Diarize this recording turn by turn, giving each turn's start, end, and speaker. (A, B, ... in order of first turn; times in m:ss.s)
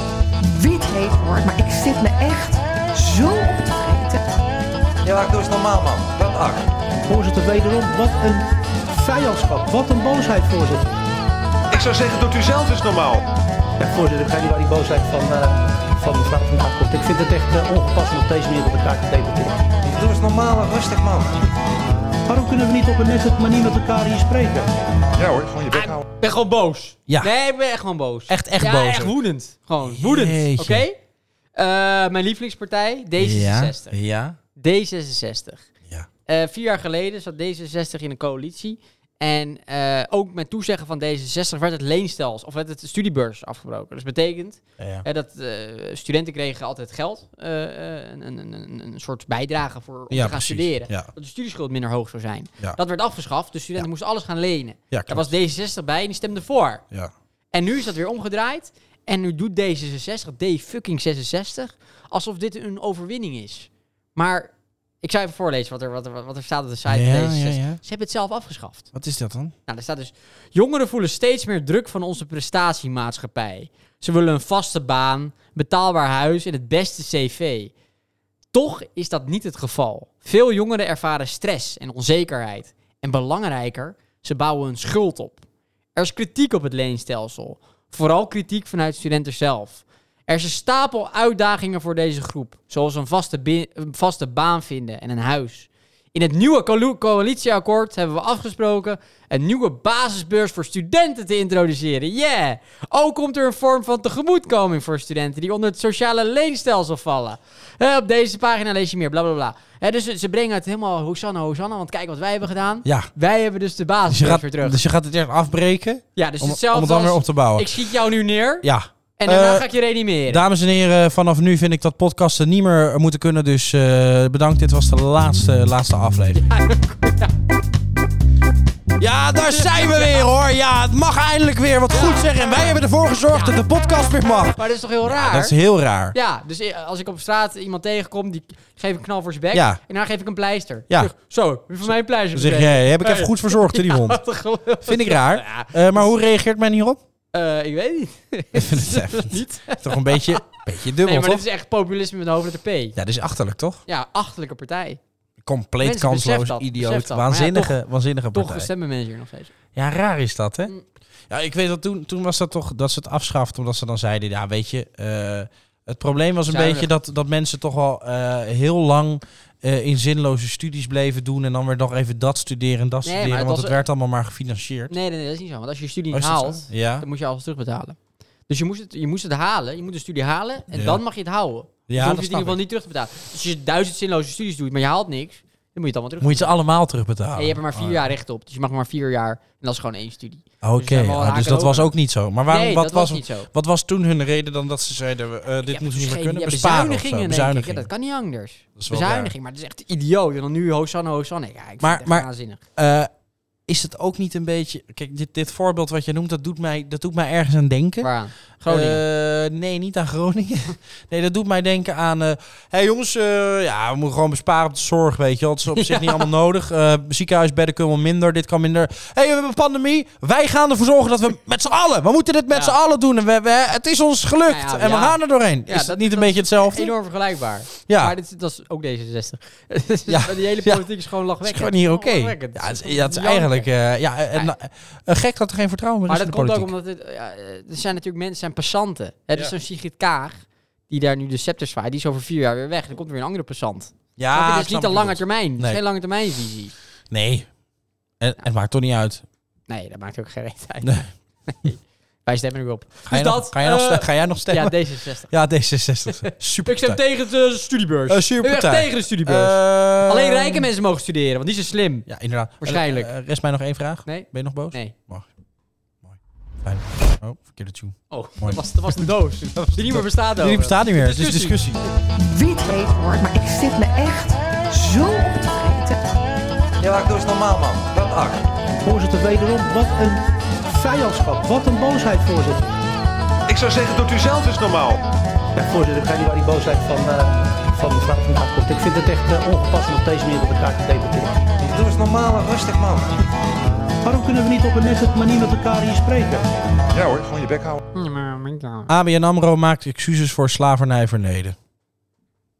0:00.4-0:04.2 A
0:05.0-0:06.7 B
0:07.1-0:11.0 C
0:11.7-0:13.2 B
0:13.8-0:19.7 C
0:19.8-0:21.4 B
0:22.3-0:24.7 C
0:25.2-0:26.0 B
0:25.7-0:31.0 D
0:28.3-0:29.1 E
0:29.8-0:30.8 E
0:31.6-0:34.0 D
0:33.2-0:34.4 E
0:34.6-0:35.6 D
0:36.3-0:56.8 D
0:44.8-0:45.0 E
0:50.1-0:51.1 E
0:54.9-0:55.3 E
0:57.5-1:08.9 D
1:06.9-1:07.8 E
1:08.9-1:09.5 E
1:09.7-1:17.7 D
1:18.5-1:25.4 D
1:25.9-1:54.8 D
1:54.1-1:57.8 E
1:56.2-2:00.4 D
1:58.6-1:59.7 E
2:00.3-2:06.4 E
2:06.4-2:07.3 D
2:09.0-2:16.1 E
2:09.4-2:10.2 D
2:11.9-2:12.3 D
2:13.3-2:13.6 D
2:14.5-2:15.6 D
2:16.1-2:26.1 D
2:19.5-2:19.8 E
2:21.8-2:24.2 E
2:24.8-2:27.0 E
2:27.3-2:30.5 D
2:28.5-2:31.4 E
2:31.0-2:33.0 D
2:33.0-2:33.8 E
2:33.9-2:35.0 D
2:35.4-2:38.7 E
2:35.8-2:37.8 D
2:38.3-2:39.5 D
2:39.7-2:40.7 E
2:41.3-2:54.9 E
2:46.5-2:46.9 D
2:53.0-2:53.8 D
2:54.9-2:58.0 D
2:56.1-2:57.0 E
2:58.5-3:06.5 D
3:00.7-3:01.0 E
3:01.9-3:02.6 E
3:06.2-3:08.0 E
3:07.3-3:11.9 D
3:10.6-3:17.9 E
3:12.5-3:13.5 D
3:15.6-3:22.6 D
3:18.8-3:19.3 E
3:21.8-3:23.1 E
3:23.7-3:28.1 E
3:28.0-3:29.0 D
3:28.7-3:46.9 E
3:35.7-3:36.2 D
3:44.5-3:53.7 D
3:47.9-3:48.1 E
3:50.1-3:50.8 E
3:51.4-3:56.7 E
3:56.1-4:06.7 D
4:04.2-4:05.8 E
4:07.1-4:07.5 E
4:08.2-4:09.2 E
4:09.7-4:15.3 D
4:10.8-4:11.1 E
4:13.1-4:14.8 E
4:15.3-4:17.0 E
4:16.1-4:22.1 D
4:18.1-4:20.7 E
4:22.1-4:25.3 E
4:22.6-4:23.1 D
4:24.0-4:24.9 D
4:26.0-4:31.8 E
4:28.1-4:31.9 D
4:32.2-4:36.0 A
4:36.8-4:38.4 B
4:38.8-4:42.7 C
4:43.5-4:45.0 B
4:45.6-4:51.4 C
4:51.6-4:53.1 B
4:54.0-4:56.5 C
4:56.9-4:57.8 B
4:57.9-4:58.9 D
4:58.9-5:01.6 E